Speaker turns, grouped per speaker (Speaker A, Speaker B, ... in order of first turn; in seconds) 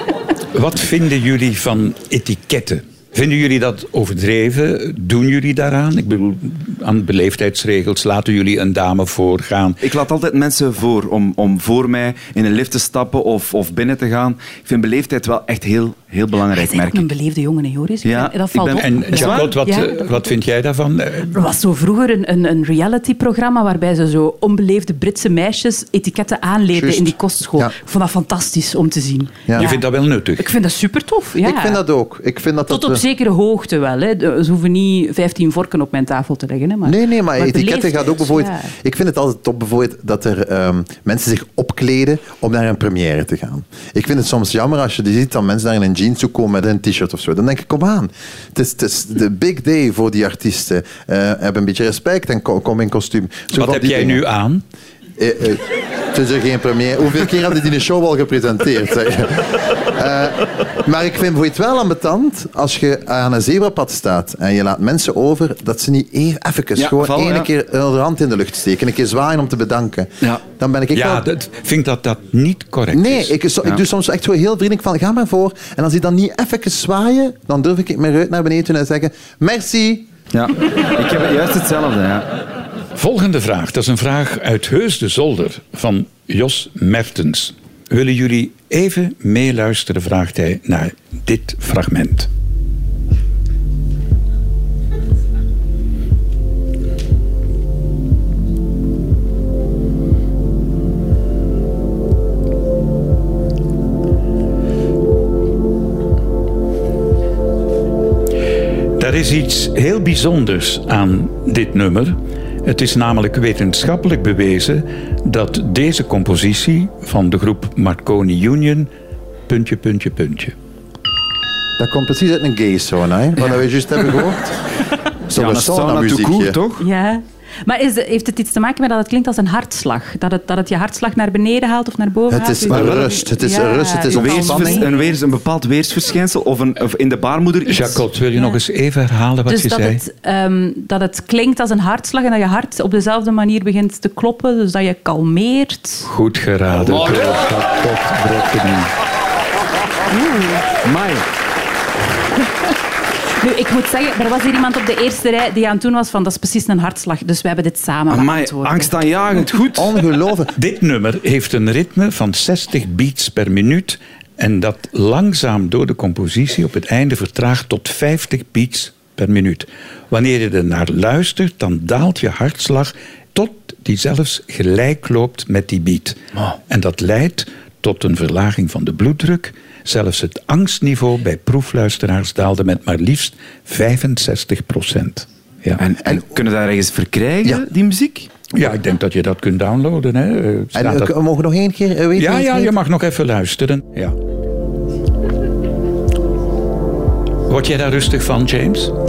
Speaker A: 0.5-9.8, 18.8-21.3, 29.6-30.4, 53.5-54.6, 70.9-73.3, 83.0-92.3, 109.0-118.9, 119.5-120.5, 137.7-140.0, 146.1-148.9, 160.5-185.8, 188.5-191.1, 192.2-194.1, 197.5-198.9
Speaker B: 9.8-17.1, 18.0-19.6, 66.8-67.5, 80.3-82.3, 125.3-126.8, 132.7-133.1, 134.1-138.0, 146.8-147.4, 150.8-151.2, 158.1-160.0, 185.8-188.3
Speaker C: 16.5-20.1, 21.3-29.8, 30.4-31.8, 32.7-38.7, 126.8-134.9, 139.5-146.1, 150.1-150.6, 153.4-158.9
Speaker D: 26.7-27.7, 29.5-29.7, 31.4-33.0, 36.8-54.2, 55.2-71.2, 72.9-80.1, 121.8-124.6, 125.3-126.6, 132.3-134.9, 159.7-160.5, 190.7-192.7